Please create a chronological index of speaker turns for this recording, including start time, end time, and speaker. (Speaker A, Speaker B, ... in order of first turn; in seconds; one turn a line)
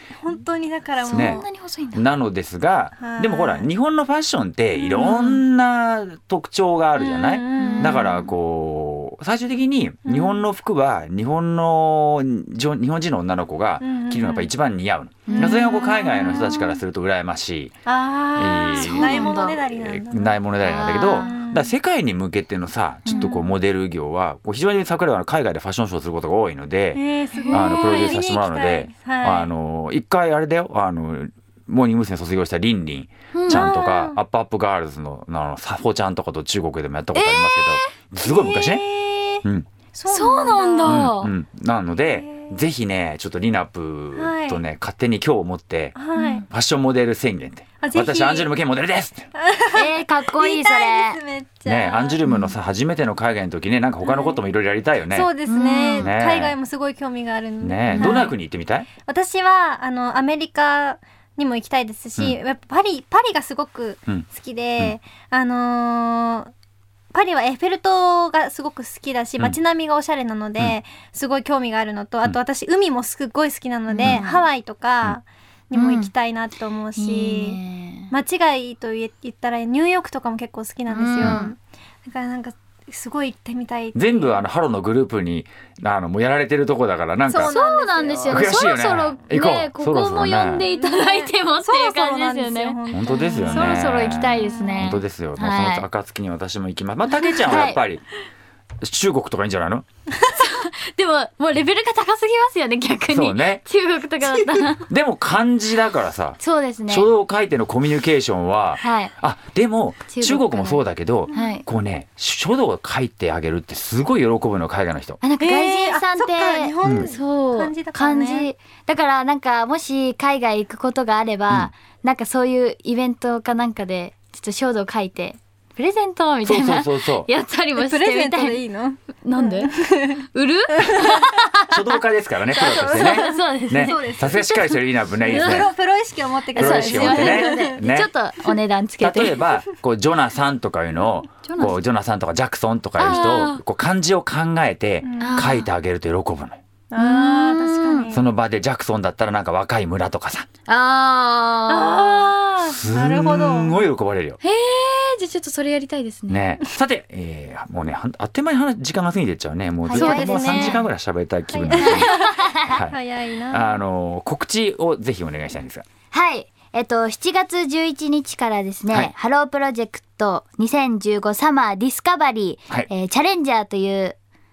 Speaker A: 0.2-1.5
Speaker B: 1.0-2.1
Speaker C: 1.1-1.4
Speaker C: 1.9-17.7
Speaker A: 3.0-3.7
Speaker A: 4.8-5.4
Speaker A: 7.0-8.2
Speaker B: 7.6-8.3
Speaker A: 10.1-10.5
Speaker A: 13.8-14.5
Speaker B: 15.3-16.7
Speaker A: 15.3-16.8
Speaker A: 17.9-20.4
Speaker C: 18.4-38.9
Speaker B: 18.7-19.6
Speaker B: 20.6-21.4
Speaker A: 20.9-21.7
Speaker B: 23.1-23.5
Speaker A: 23.1-23.4
Speaker A: 26.9-29.5
Speaker B: 27.3-28.2
Speaker B: 33.3-33.7
Speaker A: 33.5-34.2
Speaker B: 37.1-37.9
Speaker A: 38.2-41.1
Speaker B: 40.1-41.3
Speaker C: 40.8-49.3
Speaker A: 42.1-42.5
Speaker A: 44.1-44.6
Speaker A: 46.0-46.4
Speaker B: 46.1-46.5
Speaker A: 47.8-48.5
Speaker A: 49.4-52.2
Speaker B: 49.7-51.2
Speaker C: 51.7-55.3
Speaker B: 52.3-52.5
Speaker A: 54.0-54.4
Speaker A: 55.1-58.4
Speaker B: 55.5-56.1
Speaker C: 56.0-56.6
Speaker C: 57.6-58.9
Speaker B: 57.9-58.3
Speaker A: 59.1-66.5
Speaker A: 67.1-77.6
Speaker B: 73.9-74.5
Speaker B: 75.8-76.1
Speaker B: 77.0-78.1
Speaker A: 78.1-84.4
Speaker B: 80.9-81.6
Speaker C: 84.0-87.5
Speaker A: 87.3-88.7
Speaker B: 87.3-92.8
Speaker C: 88.3-90.7
Speaker A: 90.8-94.9
Speaker C: 92.9-98.0
Speaker B: 93.5-95.9
Speaker B: 97.4-97.8
Speaker C: 98.8-99.8
Speaker B: 100.3-104.9
Speaker C: 103.1-103.6
Speaker A: 104.2-104.7
Speaker C: 104.9-115.2
Speaker B: 106.4-107.1
Speaker B: 108.8-109.1
Speaker B: 110.1-111.7
Speaker B: 115.2-128.6
Speaker A: 115.4-118.5
Speaker C: 116.8-117.1
Speaker C: 126.4-127.3
Speaker A: 127.8-130.2
Speaker B: 129.2-132.0
Speaker A: 130.8-131.3
Speaker C: 131.7-135.7
Speaker B: 132.5-134.8
Speaker A: 132.6-137.8
Speaker B: 135.3-135.7
Speaker B: 136.5-139.4
Speaker C: 136.6-138.1
Speaker C: 139.0-146.6
Speaker B: 141.4-141.8
Speaker B: 143.0-143.6
Speaker A: 145.0-145.6
Speaker B: 145.2-145.7
Speaker A: 146.9-148.2
Speaker B: 147.0-148.2
Speaker C: 148.1-150.5
Speaker B: 150.7-152.5
Speaker A: 151.7-153.8
Speaker C: 152.7-154.4
Speaker B: 154.4-156.4
Speaker C: 156.3-163.0
Speaker B: 159.9-160.8
Speaker A: 159.9-160.8
Speaker A: 161.5-163.8
Speaker B: 161.7-162.8
Speaker C: 163.5-165.9
Speaker B: 166.1-174.2